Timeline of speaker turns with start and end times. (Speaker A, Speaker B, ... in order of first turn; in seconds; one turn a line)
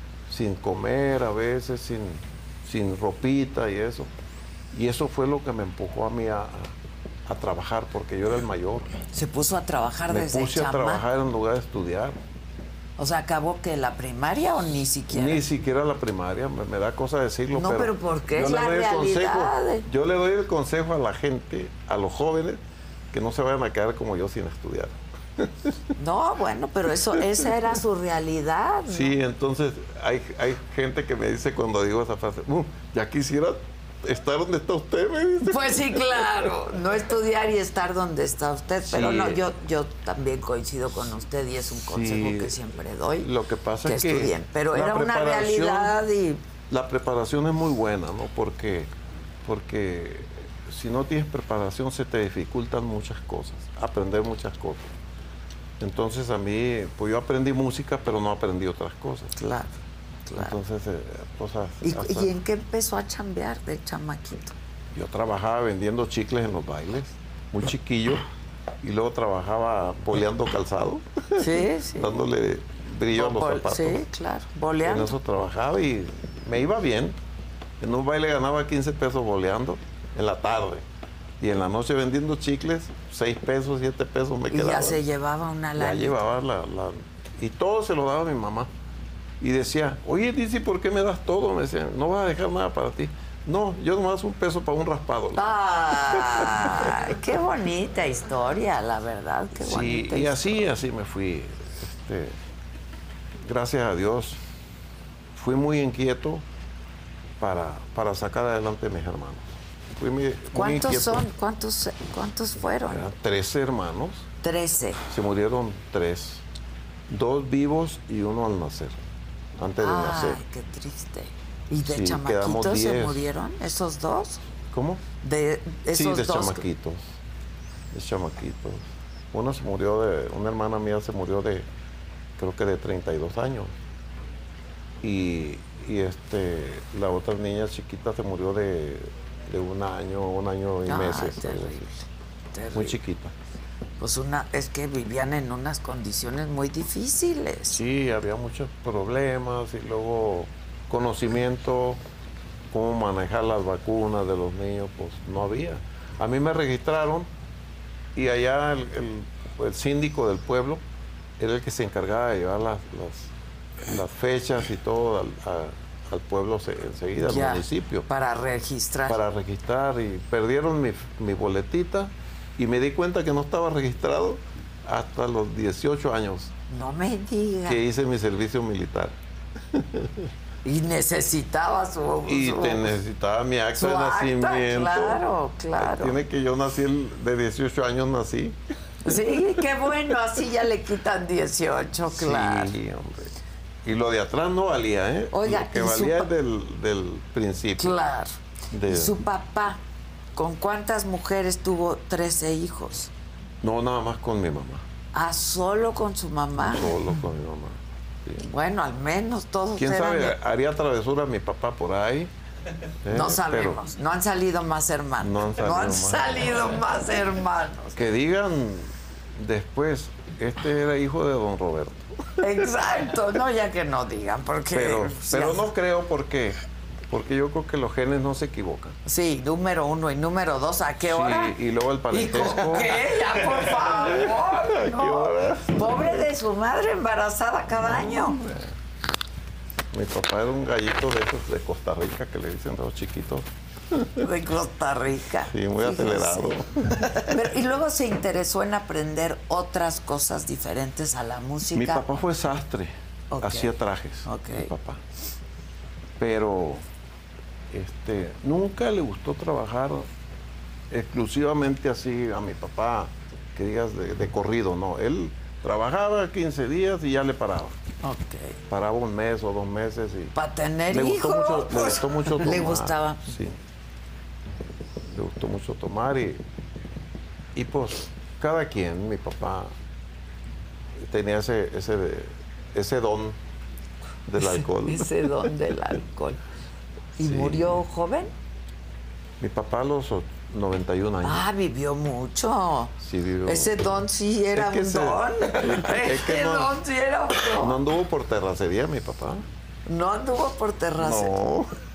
Speaker A: 0.3-4.1
Speaker A: 4.7-6.7
Speaker A: 7.2-9.0
Speaker B: 9.1-11.0
Speaker A: 10.1-12.2
Speaker B: 13.0-15.4
Speaker A: 15.1-22.6
Speaker B: 17.5-19.9
Speaker A: 23.1-25.7
Speaker B: 26.0-29.1
Speaker A: 28.9-36.3
Speaker B: 35.4-43.3
Speaker A: 38.8-39.4
Speaker A: 41.7-42.6
Speaker A: 43.2-46.0
Speaker B: 43.8-46.4
Speaker A: 46.7-48.9
Speaker A: 49.4-54.9
Speaker A: 55.8-59.3
Speaker B: 59.4-60.5
Speaker A: 60.4-62.3
Speaker B: 61.8-64.5
Speaker A: 64.9-68.2
Speaker A: 68.8-74.0
Speaker B: 71.4-72.2
Speaker B: 73.1-75.1
Speaker A: 74.8-77.2
Speaker A: 77.8-80.8
Speaker A: 81.4-85.0
Speaker B: 84.5-86.2
Speaker A: 85.8-88.7
Speaker A: 89.4-95.5
Speaker B: 95.4-100.5
Speaker A: 96.1-96.9
Speaker A: 99.6-102.4
Speaker A: 103.4-104.4
Speaker A: 105.3-106.4
Speaker A: 107.4-111.2
Speaker B: 110.5-113.1
Speaker A: 112.9-114.3
Speaker B: 114.4-115.0
Speaker A: 115.1-116.4
Speaker A: 117.1-119.0
Speaker A: 119.6-120.4
Speaker B: 119.8-124.4
Speaker A: 121.8-123.2
Speaker A: 124.7-125.0
Speaker B: 125.2-126.6
Speaker A: 125.9-127.2
Speaker A: 127.9-131.7
Speaker A: 132.4-133.7
Speaker A: 135.0-141.8
Speaker B: 140.9-142.0
Speaker B: 142.5-143.0
Speaker A: 142.7-143.3
Speaker B: 144.0-147.8
Speaker A: 147.7-152.0
Speaker A: 152.7-157.3
Speaker A: 158.1-160.8
Speaker A: 161.4-163.3
Speaker A: 163.9-168.1
Speaker B: 167.2-169.2
Speaker A: 169.1-176.5
Speaker B: 176.7-177.8
Speaker A: 177.7-179.1
Speaker A: 179.7-180.3
Speaker B: 180.6-182.9
Speaker A: 182.2-185.2
Speaker B: 183.7-186.2
Speaker A: 185.8-188.6
Speaker B: 189.0-192.7
Speaker A: 192.1-193.3
Speaker A: 193.8-198.0
Speaker B: 195.3-196.3
Speaker B: 197.8-198.3
Speaker A: 198.7-199.2
Speaker B: 198.9-199.8
Speaker B: 200.3-203.1
Speaker A: 203.6-204.8
Speaker B: 205.1-207.0
Speaker A: 206.6-208.5
Speaker B: 208.4-210.3
Speaker A: 209.8-212.3
Speaker A: 213.0-213.8
Speaker B: 213.1-218.0
Speaker A: 215.2-216.7
Speaker A: 217.9-222.5
Speaker B: 222.4-225.7
Speaker A: 224.7-226.6
Speaker A: 227.1-229.0
Speaker B: 229.1-231.5
Speaker A: 231.0-236.2
Speaker B: 232.1-238.4
Speaker A: 237.8-238.7
Speaker A: 239.9-244.2
Speaker B: 244.2-252.2
Speaker A: 245.5-247.1
Speaker A: 251.7-255.0
Speaker B: 253.3-253.7
Speaker B: 254.2-254.7
Speaker A: 256.2-256.8
Speaker A: 257.7-260.1
Speaker A: 260.9-267.8
Speaker B: 268.0-268.6
Speaker A: 268.7-270.4
Speaker B: 270.4-273.2
Speaker A: 270.9-273.6
Speaker A: 275.1-276.4
Speaker A: 277.5-279.7
Speaker A: 281.0-283.4
Speaker A: 284.3-285.1
Speaker B: 284.4-286.4
Speaker B: 287.2-288.3
Speaker A: 287.2-287.8
Speaker A: 289.4-291.4
Speaker B: 291.2-292.9
Speaker A: 293.0-293.7
Speaker B: 293.4-297.8
Speaker A: 294.5-296.8
Speaker A: 297.5-299.4
Speaker B: 299.9-301.3
Speaker A: 301.0-301.7